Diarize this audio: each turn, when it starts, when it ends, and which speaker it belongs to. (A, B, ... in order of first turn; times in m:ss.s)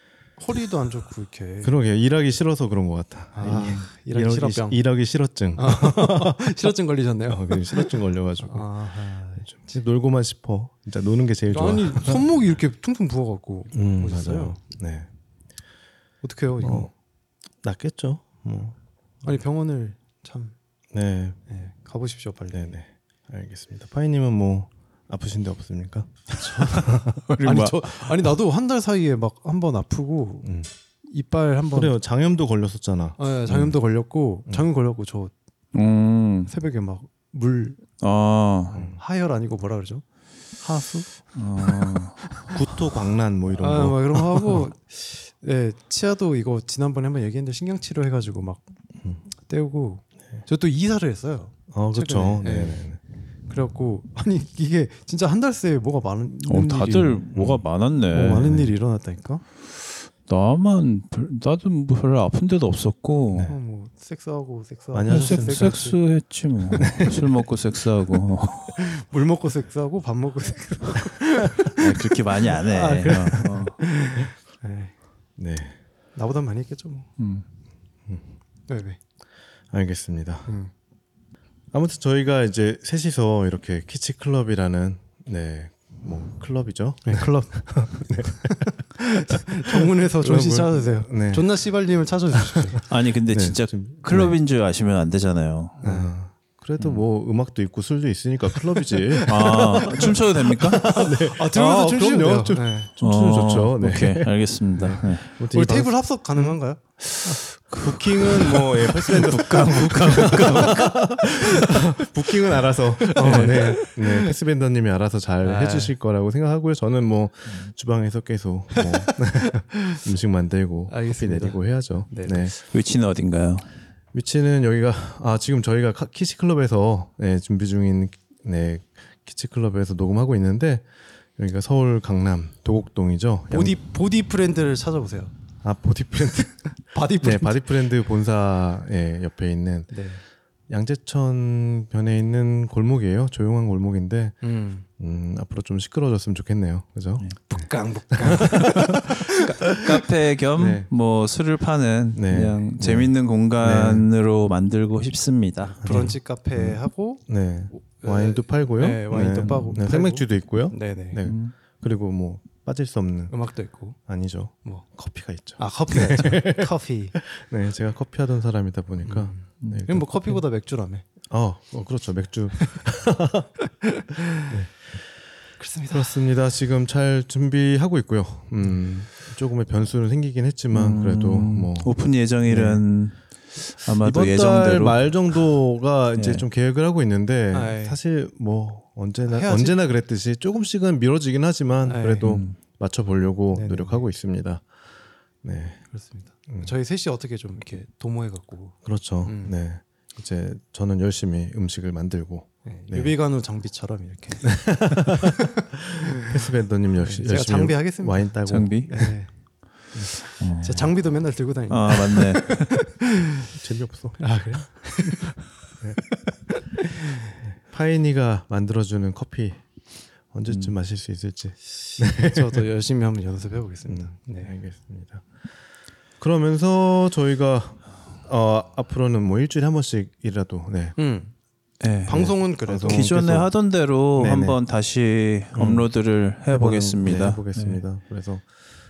0:00.4-0:01.7 A
0:01.6-0:06.7 B
0:03.3-0:04.8 A
0:05.6-0:09.7 A
0:07.3-0:08.7 B
0:09.4-0:12.2 B
0:11.5-0:14.6 A
0:13.7-0:15.1 B
0:16.2-0:16.9 A
0:16.6-0:16.9 B
0:17.6-0:18.8 B
0:19.2-0:20.5 A
0:20.9-0:21.4 B
0:21.5-0:22.6 A
0:22.5-0:27.2 B
0:26.4-0:30.5 A
0:27.3-0:28.1 C
0:30.4-0:30.7 B
0:31.0-0:31.9 A
0:31.7-0:33.7 B
0:33.2-0:35.3 A
0:35.7-0:36.5 C
0:36.5-0:37.8 A
0:38.0-0:38.8 C
0:38.7-0:39.0 B
0:38.9-0:40.0 A
0:40.6-0:41.1 A
0:41.3-0:42.2 C
0:42.4-0:44.6 B
0:43.5-0:48.6 A
0:49.3-0:52.8 A
0:51.7-0:53.0 B
0:53.5-0:57.3 A
0:56.5-0:58.7 C
0:57.3-0:57.6 B
0:58.1-0:59.4 A
1:00.2-1:03.5 C
1:03.5-1:06.0 A
1:04.9-1:05.8 B
1:05.1-1:08.8 C
1:06.8-1:07.2 B
1:08.8-1:14.9 A
1:11.8-1:13.8 C
1:15.4-1:15.8 B
1:16.2-1:17.1 A
1:17.2-1:17.4 C
1:18.7-1:19.0 A
1:19.7-1:20.5 B
1:21.7-1:28.6 B
1:27.0-1:27.5 A
1:28.5-1:32.8 A
1:29.7-1:31.4 B
1:32.5-1:34.4 B
1:32.9-1:35.8 C
1:35.8-1:36.1 A
1:35.8-1:46.5 B
1:39.1-1:40.0 A
1:39.3-1:40.8 C
1:40.8-1:42.9 A
1:43.0-1:45.3 C
1:45.5-1:47.3 A
1:47.0-1:51.2 C
1:47.8-2:02.6 B
1:50.2-1:50.8 A
1:53.1-1:54.3 A
1:53.2-1:53.7 C
1:55.4-1:55.9 A
1:58.7-2:00.0 A
2:00.9-2:02.5 A
2:02.6-2:03.6 C
2:04.1-2:13.8 B
2:13.5-2:15.3 A
2:15.6-2:20.0 B
2:16.9-2:17.6 A
2:19.9-2:20.2 A
2:20.7-2:24.4 B
2:24.4-2:24.8 A
2:25.0-2:27.6 B
2:27.5-2:29.8 A
2:28.2-2:28.8 B
2:28.6-2:35.8 C
2:30.6-2:30.9 B
2:32.1-2:34.1 B
2:35.6-2:41.2 A
2:35.8-2:43.3 B
2:39.4-2:39.7 C
2:41.2-2:41.5 C
2:43.3-2:44.0 A
2:44.0-2:50.3 B
2:45.6-2:47.2 A
2:49.0-2:51.0 A
2:51.3-2:53.5 B
2:55.6-2:56.2 A
2:55.9-3:01.9 B
3:00.7-3:05.4 C
3:02.4-3:02.8 B
3:04.0-3:14.6 B
3:06.2-3:06.4 C
3:07.5-3:08.0 A
3:09.3-3:09.8 A
3:11.8-3:12.4 A
3:12.2-3:12.6 C
3:13.5-3:14.0 A
3:15.4-3:15.8 B
3:15.9-3:19.6 A
3:18.8-3:23.1 B
3:22.6-3:25.4 A
3:24.4-3:28.9 B
3:26.1-3:26.4 A
3:27.0-3:29.3 A
3:28.5-3:28.9 C
3:30.4-3:30.9 C
3:30.6-3:33.1 A
3:31.7-3:32.8 C
3:33.6-3:34.4 B
3:34.2-3:35.4 A
3:37.4-3:39.6 B
3:40.3-3:42.6 B
3:42.0-3:44.5 A
3:43.9-3:45.3 B
3:46.2-3:51.0 B
3:51.0-3:51.3 A
3:51.8-3:57.8 C
3:52.0-3:53.2 A
3:52.1-3:53.5 B
3:54.2-3:54.6 B
3:55.5-3:55.9 B
3:56.5-3:58.5 B